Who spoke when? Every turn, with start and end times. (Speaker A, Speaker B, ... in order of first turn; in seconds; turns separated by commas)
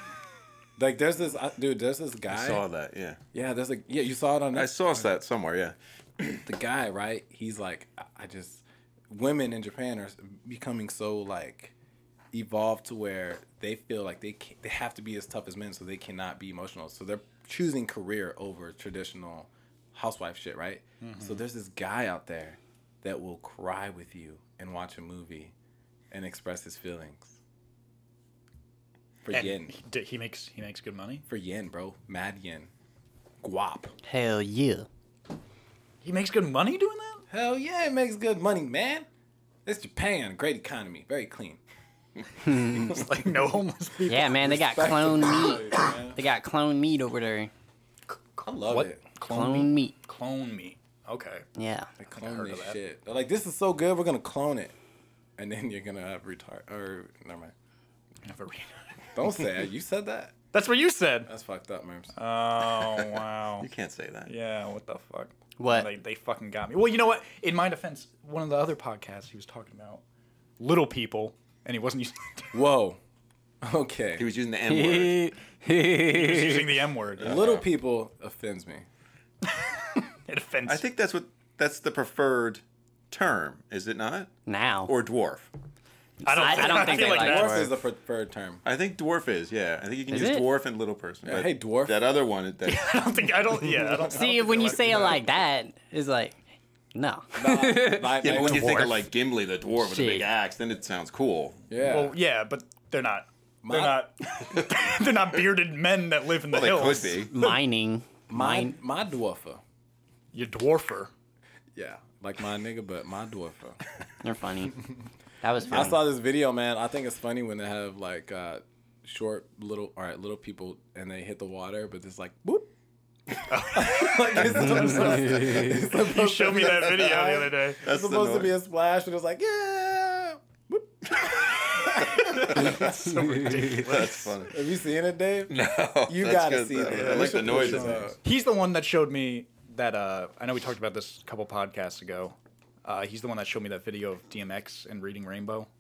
Speaker A: 0.8-2.6, Speaker B: 2.3-3.2, Speaker A: 3.3-5.1, Speaker B: 4.5-6.4, Speaker A: 6.4-11.7, Speaker A: 12.3-25.5, Speaker C: 21.0-21.4, Speaker A: 26.1-27.4, Speaker A: 29.2-29.7, Speaker C: 29.3-31.2, Speaker A: 31.3-32.7, Speaker A: 33.4-33.9, Speaker D: 34.0-34.9, Speaker C: 36.0-37.2, Speaker A: 37.3-39.1, Speaker A: 39.6-41.6, Speaker D: 42.4-43.0, Speaker C: 42.6-44.6, Speaker A: 42.8-43.1, Speaker D: 44.1-47.5, Speaker A: 44.4-46.2, Speaker C: 48.4-51.5, Speaker A: 48.4-49.0, Speaker D: 49.2-49.9, Speaker D: 51.6-51.9, Speaker A: 52.0-54.7, Speaker C: 52.1-52.8, Speaker A: 55.4-57.5, Speaker C: 58.2-58.8, Speaker A: 59.1-60.4, Speaker C: 60.5-61.3, Speaker A: 61.2-62.1, Speaker C: 62.1-63.7, Speaker B: 63.0-64.3, Speaker C: 64.2-70.0, Speaker D: 65.6-65.9, Speaker C: 70.6-72.6, Speaker A: 72.5-73.0, Speaker A: 73.6-74.3, Speaker B: 74.2-75.3, Speaker D: 74.7-76.8, Speaker C: 76.0-77.5, Speaker B: 77.2-77.7, Speaker A: 77.2-78.9, Speaker C: 79.4-80.8, Speaker B: 80.7-84.3, Speaker D: 84.5-84.9, Speaker B: 84.9-85.5, Speaker D: 86.2-87.7, Speaker C: 86.2-87.7, Speaker A: 86.5-88.6, Speaker B: 88.6-93.1, Speaker D: 90.1-90.5, Speaker A: 91.2-92.0, Speaker C: 92.7-95.2, Speaker A: 93.6-94.2, Speaker D: 94.1-96.4, Speaker D: 96.9-98.9, Speaker A: 97.3-99.0, Speaker B: 98.2-101.6, Speaker D: 99.8-100.3, Speaker A: 101.7-102.2, Speaker C: 101.8-107.6, Speaker A: 103.6-104.0, Speaker B: 106.5-107.3, Speaker D: 107.3-108.8, Speaker A: 108.3-109.6, Speaker C: 110.3-111.1, Speaker A: 111.7-113.8, Speaker D: 114.2-114.8, Speaker D: 115.4-116.0, Speaker A: 115.7-122.7, Speaker A: 123.3-132.8, Speaker C: 123.5-127.8, Speaker B: 124.6-124.9, Speaker D: 124.7-125.7, Speaker B: 127.8-128.5, Speaker B: 131.2-132.9, Speaker C: 131.8-134.4, Speaker B: 133.8-134.5, Speaker A: 134.5-138.2, Speaker B: 135.5-138.2, Speaker C: 136.9-145.7